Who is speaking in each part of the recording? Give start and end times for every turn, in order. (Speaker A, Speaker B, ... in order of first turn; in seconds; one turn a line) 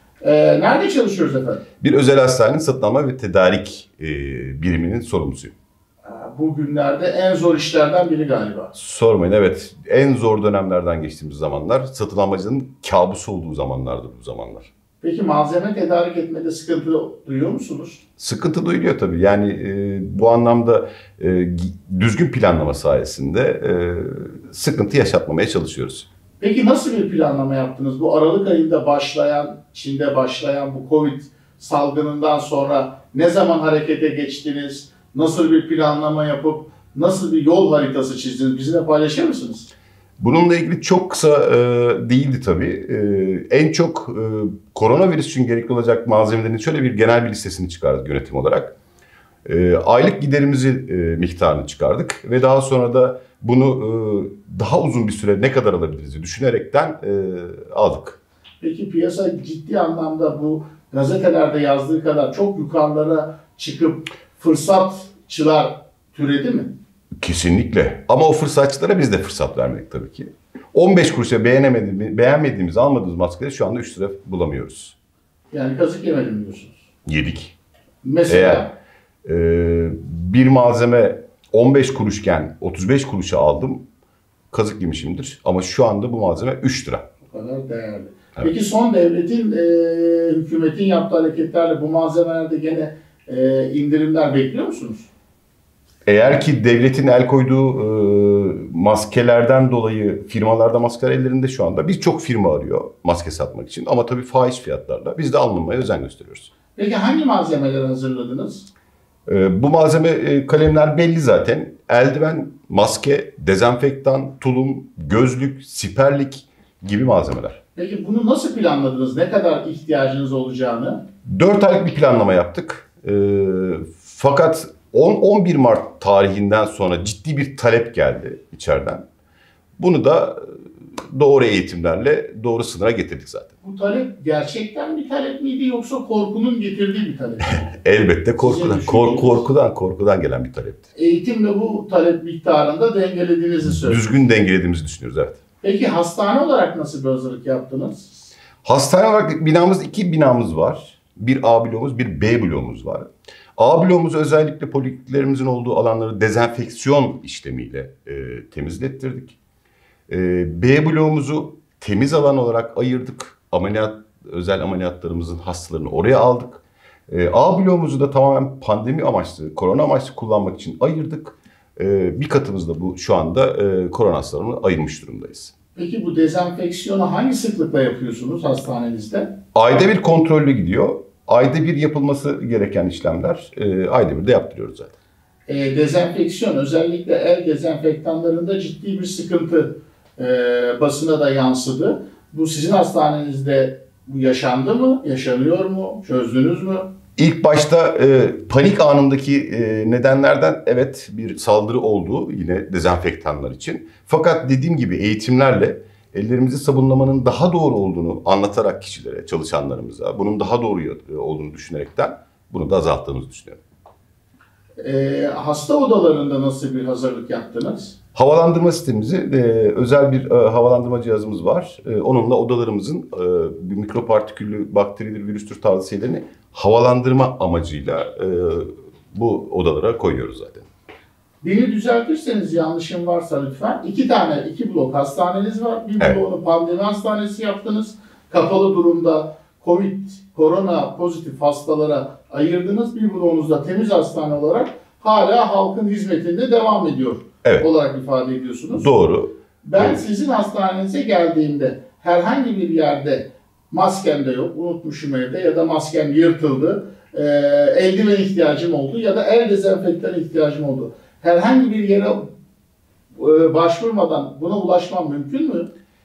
Speaker A: 0.2-1.6
Speaker B: 1.8-5.5
Speaker A: 6.0-8.7
Speaker B: 8.7-14.7
Speaker A: 15.0-18.0
Speaker B: 18.2-26.1
Speaker A: 26.4-39.7
Speaker B: 40.2-48.7
Speaker B: 49.5-58.2
Speaker A: 58.6-66.7
Speaker B: 67.2-74.9
Speaker A: 75.5-76.8
Speaker B: 77.0-77.5
Speaker A: 78.0-78.7
Speaker B: 78.3-78.7
Speaker B: 79.2-83.8
Speaker B: 84.5-87.0
Speaker A: 87.2-95.1
Speaker B: 96.0-106.5
Speaker A: 106.8-108.7
Speaker B: 109.3-117.6
Speaker A: 117.7-121.0
Speaker B: 121.2-129.0
Speaker B: 129.8-130.4
Speaker B: 130.9-133.5
Speaker A: 133.6-137.7
Speaker B: 137.5-140.9
Speaker A: 138.4-139.4
Speaker A: 140.9-144.0
Speaker B: 143.6-145.4
Speaker A: 145.6-148.1
Speaker B: 148.6-159.4
Speaker B: 160.1-175.5
Speaker A: 175.8-179.3
Speaker B: 179.5-184.9
Speaker A: 185.5-196.9
Speaker B: 197.2-213.6
Speaker A: 214.8-217.9
Speaker B: 218.1-230.7
Speaker A: 231.4-248.9
Speaker B: 248.7-250.0
Speaker A: 249.6-262.3
Speaker A: 263.1-265.7